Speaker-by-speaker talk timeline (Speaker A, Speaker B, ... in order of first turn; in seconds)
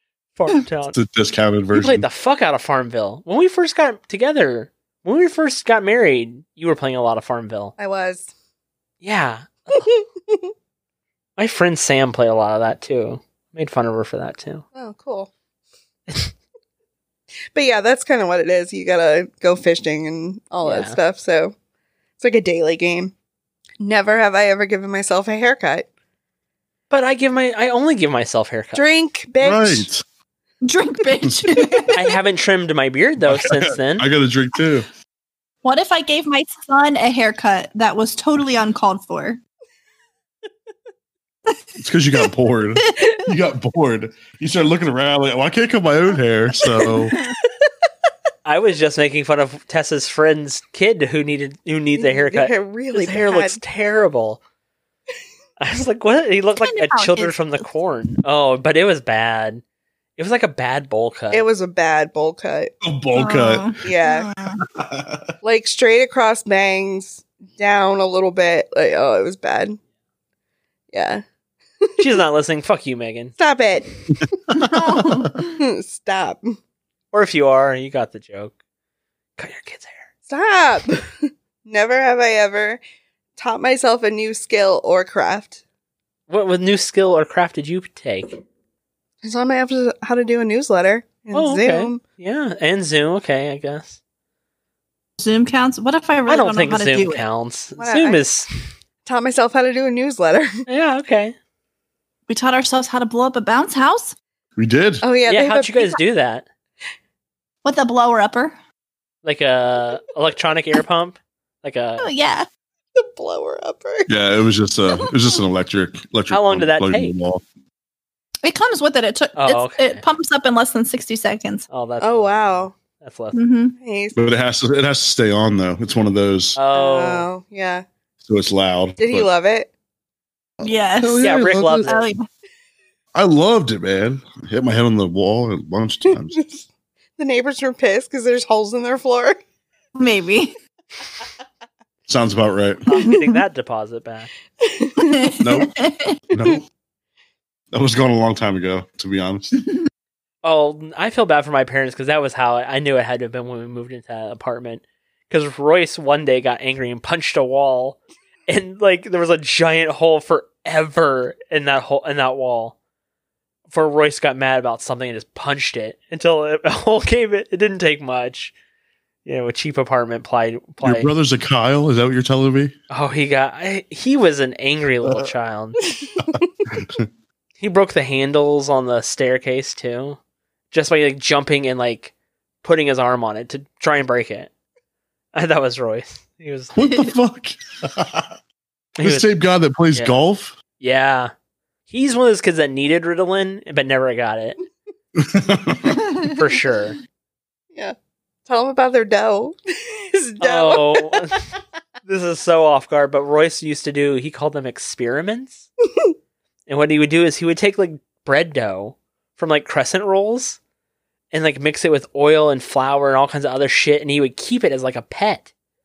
Speaker A: 0.4-1.0, 1.7-7.7, 9.0-9.8, 11.4-14.6, 16.1-16.3, 20.6-21.0, 26.9-28.8, 31.9-34.1, 48.5-54.4, 55.6-59.6, 60.2-61.5, 72.0-73.3, 77.1-78.5, 79.4-80.1, 86.3-88.4, 91.3-94.0, 96.3-98.5, 100.7-101.3, 105.3-106.5, 109.2-112.1, 116.3-117.2, 119.4-120.0, 121.7-123.4, 126.6-127.3, 131.2-132.1, 142.9-144.3, 150.4-162.8, 163.7-168.5, 169.2-171.1, 172.9-175.9, 177.6-180.2, 180.7-182.1, 182.6-184.5, 185.3-186.8, 189.0-189.3, 190.8-191.3, 191.9-194.6, 196.3-197.0, 200.4-201.4, 202.1-205.7, 206.7-210.6, 211.3-215.5
Speaker B: 0.9-2.0, 29.4-30.0, 31.2-31.9, 33.2-34.9, 41.8-47.1, 62.8-63.8, 64.7-65.3, 74.5-75.3, 104.6-105.0, 114.1-117.4, 124.2-126.6, 128.2-129.3, 130.6-131.9, 133.1-136.4, 142.1-142.8, 145.4-145.8, 146.3-146.6, 147.7-149.5, 170.8-172.8, 176.7-177.1, 186.8-188.3, 189.0-190.6, 195.2-196.1
Speaker C: 7.8-8.3, 9.8-10.5, 14.8-15.3, 17.5-21.6, 22.2-23.1, 23.8-25.9, 28.8-29.9, 52.0-53.6, 61.3-62.7, 63.8-64.3, 65.4-69.8, 70.9-71.2, 73.4-73.9, 75.4-76.6, 80.3-82.8, 83.4-85.6, 89.2-92.0, 97.8-98.2, 99.1-100.6, 105.0-106.0, 113.0-114.1, 122.0-122.7, 123.8-124.2, 126.7-127.8, 129.0-129.7, 136.3-136.7, 137.2-139.4, 144.6-145.3, 198.5-201.4
Speaker D: 30.6-32.1, 35.6-39.4, 42.9-43.2, 56.6-57.4, 63.1-64.6, 74.5-75.5, 95.2-97.3, 102.3-104.2, 107.6-108.6, 112.0-112.5, 118.4-121.7, 123.3-123.8, 130.6-132.3, 140.0-140.6, 145.0-146.2, 196.1-196.3